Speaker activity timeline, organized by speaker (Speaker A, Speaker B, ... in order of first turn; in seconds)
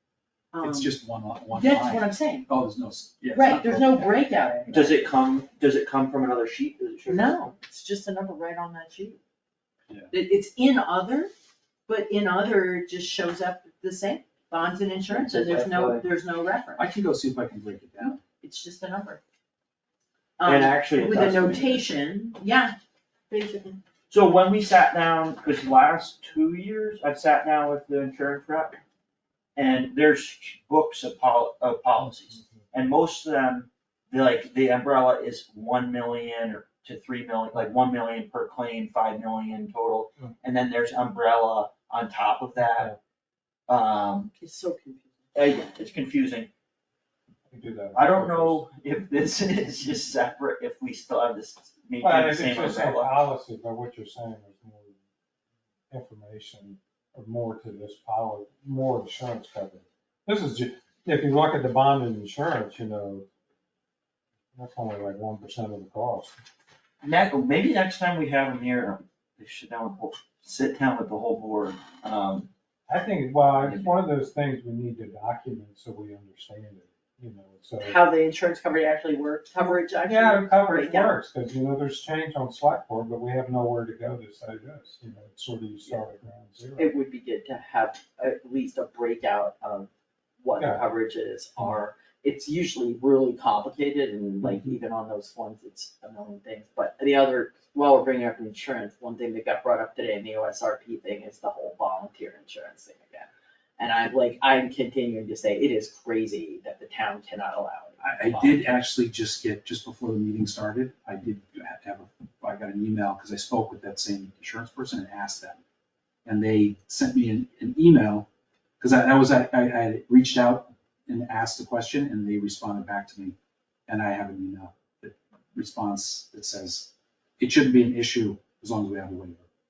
Speaker A: 0.5-0.9, 1.5-2.5, 3.3-5.0, 7.1-9.2, 10.1-11.3, 11.9-16.9, 18.4-19.2, 20.4-22.8, 23.3-23.8, 44.4-45.6, 77.8-81.2, 86.8-89.9, 90.4-108.7
Speaker B: 0.6-4.2, 16.8-18.2, 108.0-115.6, 116.2-118.3, 118.8-123.3, 123.9-129.5
Speaker C: 4.7-7.5, 15.1-16.1, 20.4-21.8, 24.1-28.8, 29.6-42.9, 43.7-44.3, 45.4-46.5, 48.0-53.1, 67.0-72.5, 73.6-73.9
Speaker D: 32.0-32.6, 42.6-43.0, 47.5-48.7, 52.0-55.0, 55.9-63.3, 64.5-66.3, 72.9-78.0, 80.1-86.9, 94.4-94.8